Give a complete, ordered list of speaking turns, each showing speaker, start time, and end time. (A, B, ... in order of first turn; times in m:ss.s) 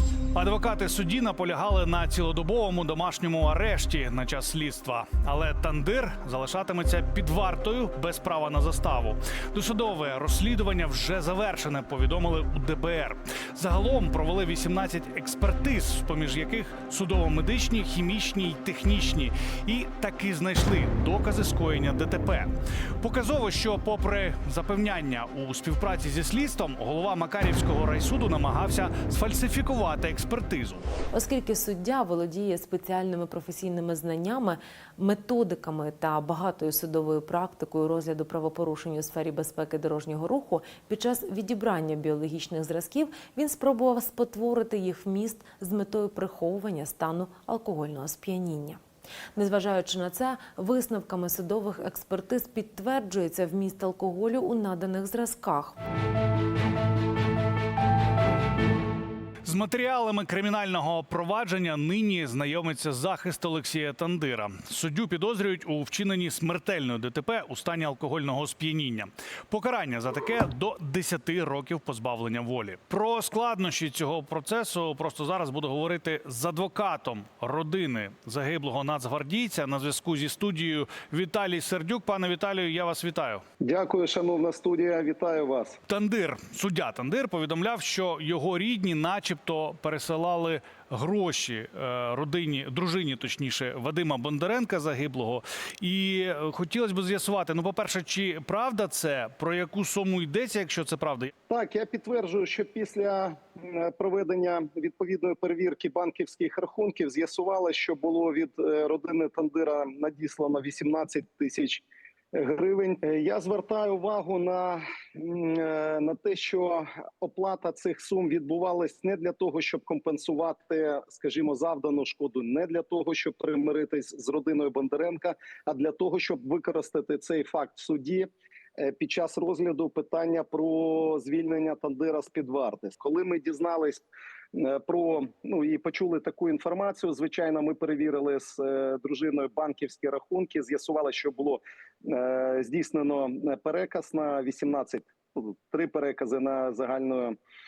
0:00.3-0:30.9 A
0:31.1-0:48.8 B
0:49.3-0:55.8 B
0:59.4-1:23.4 A
1:23.6-1:25.8 C
1:25.9-1:41.3 A
1:41.5-2:14.0 C
2:14.5-2:27.3 C